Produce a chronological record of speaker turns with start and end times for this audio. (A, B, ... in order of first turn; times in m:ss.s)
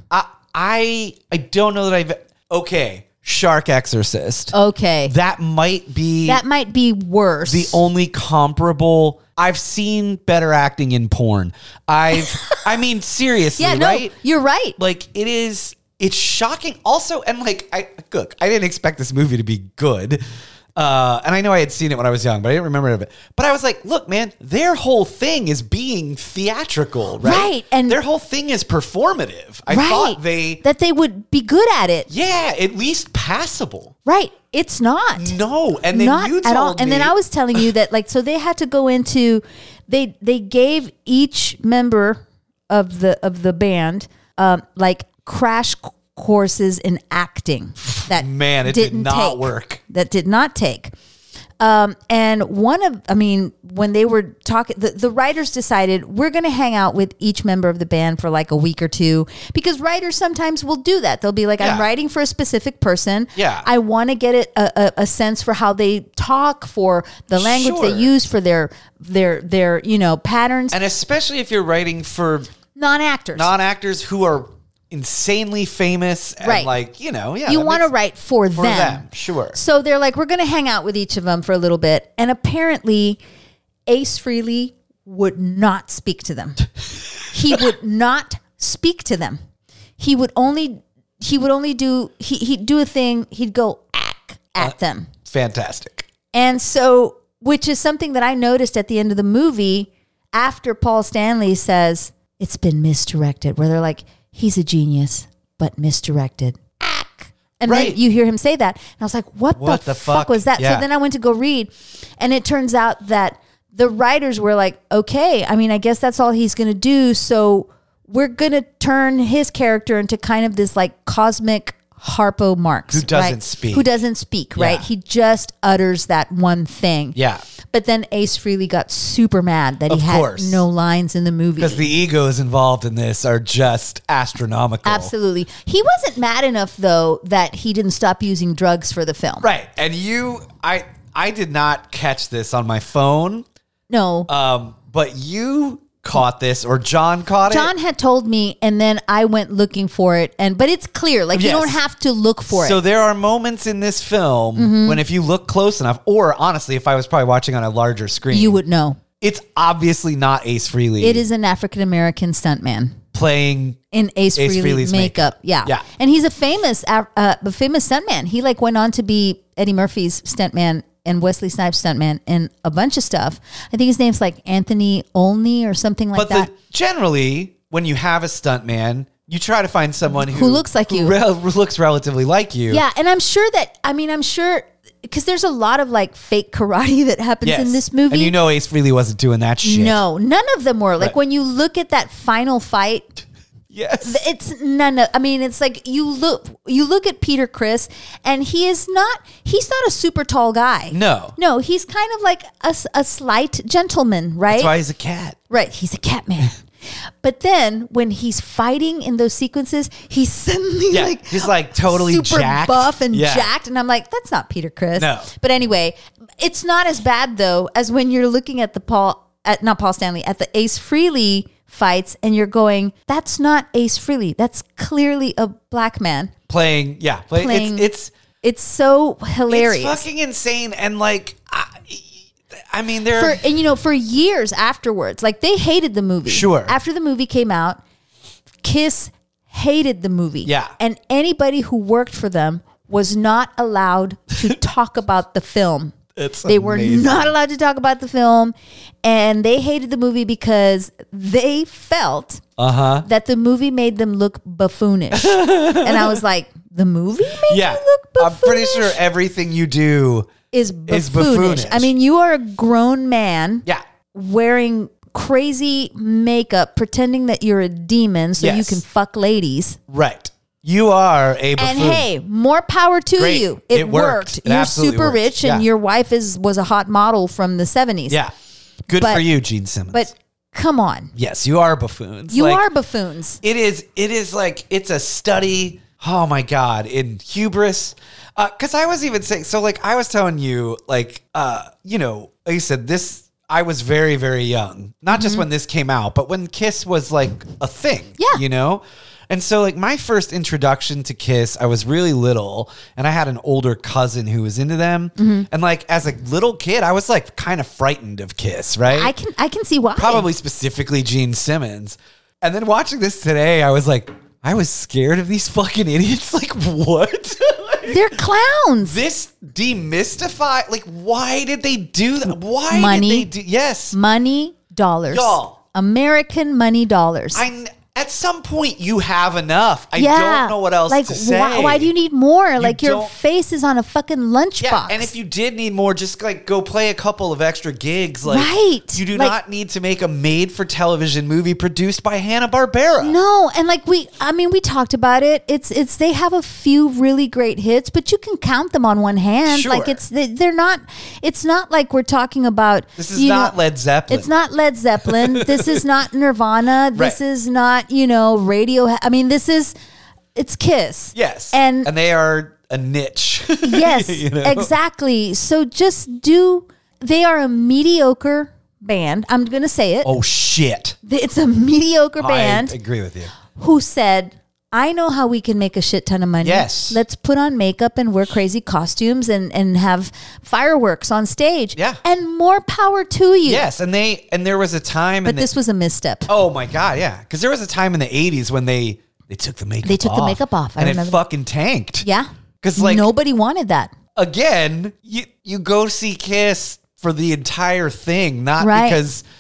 0:00.1-0:04.5 A
0:04.5-0:05.1 B
0:05.1-0:06.4 A
0:06.2-0:07.8 B
0:07.5-0:14.1 A
0:12.1-0:12.6 B
0:13.6-0:14.8 B
0:14.8-0:20.2 A
0:20.8-0:30.6 A
0:27.2-0:28.0 B
0:29.7-0:32.1 B
0:32.1-0:33.9 A
0:34.1-0:35.4 B
0:35.2-0:37.6 A
0:35.9-0:50.9 B
0:47.8-0:49.8 A
0:51.6-1:10.8 B
1:01.6-1:01.9 A
1:03.4-1:03.7 A
1:07.4-1:08.2 A
1:10.7-1:12.5 A
1:12.8-1:13.5 B
1:13.3-1:17.9 A
1:16.4-1:16.7 B
1:17.5-1:23.2 B
1:18.6-1:19.6 A
1:23.9-1:26.7 B
1:27.3-1:29.4 B
1:30.0-1:35.1 B
1:35.3-1:36.1 A
1:36.3-2:07.2 B
1:47.7-1:48.0 A
1:49.6-1:50.9 A
2:02.9-2:03.9 A
2:04.6-2:04.8 A
2:07.2-2:07.4 A
2:07.7-2:11.8 B
2:09.9-2:10.6 A
2:11.6-2:15.1 A
2:14.8-2:19.5 B
2:19.4-2:23.4 A
2:23.9-2:24.3 B
2:24.3-2:27.7 A
2:27.5-2:32.8 B
2:31.3-2:31.8 A
2:32.5-2:38.6 A
2:34.6-2:35.0 B
2:38.3-2:39.0 B
2:39.2-2:41.2 A
2:41.0-2:43.0 B
2:43.1-2:43.8 A
2:43.9-2:56.5 B
2:44.4-2:45.8 A
2:56.1-3:02.8 A
3:00.1-3:01.2 B
3:02.7-3:08.4 B
3:07.4-3:10.0 A
3:09.6-3:13.1 B
3:13.7-3:14.2 A
3:14.0-3:24.7 B
3:20.9-3:21.4 A
3:24.5-3:25.4 A
3:25.5-3:26.6 B
3:27.2-3:46.3 B
3:30.9-3:33.5 A
3:35.0-3:35.3 A
3:46.5-3:48.1 A
3:47.4-3:47.9 B
3:48.4-3:50.1 B
3:49.5-3:53.4 A
3:53.2-3:57.8 B
3:56.3-3:56.8 A
3:58.6-4:12.4 B
4:00.4-4:00.7 A
4:06.2-4:07.3 A
4:12.6-4:13.1 A
4:13.0-4:19.0 B
4:15.2-4:16.2 A
4:17.4-4:20.3 A
4:20.5-4:29.8 B
4:20.9-4:21.9 A
4:28.4-4:28.8 A
4:29.9-4:32.1 A
4:31.6-4:38.2 B
4:33.2-4:35.7 A
4:38.9-4:40.1 A
4:39.0-4:39.2 B
4:39.9-4:41.1 B
4:41.2-4:42.7 A
4:42.3-4:43.4 B
4:43.4-5:09.1 A
4:55.1-4:55.4 B
5:05.2-5:05.5 B
5:08.9-5:10.3 B
5:10.0-5:18.2 A
5:17.9-5:19.0 B
5:18.8-5:24.0 A
5:22.7-5:23.3 B
5:23.9-5:27.4 B
5:25.1-5:25.6 A
5:27.3-5:31.9 A
5:30.0-5:35.1 B
5:32.6-5:33.1 A
5:34.6-5:43.2 A
5:38.2-5:39.4 B
5:43.0-5:53.6 B
5:49.5-5:50.0 A
5:53.0-5:54.3 A
5:54.1-5:59.7 B
5:55.1-5:55.8 A
6:00.4-6:01.9 B
6:01.2-6:04.7 A
6:03.6-6:10.1 B
6:10.0-6:11.0 A
6:11.0-6:12.8 B
6:12.2-6:13.3 A
6:13.5-6:23.6 B
6:16.4-6:17.0 A
6:23.5-6:25.5 A
6:25.2-6:26.3 B
6:26.3-6:32.1 A
6:29.8-6:31.2 B
6:32.0-6:33.9 B
6:32.6-6:33.1 A
6:34.2-6:39.2 A
6:38.6-6:39.0 B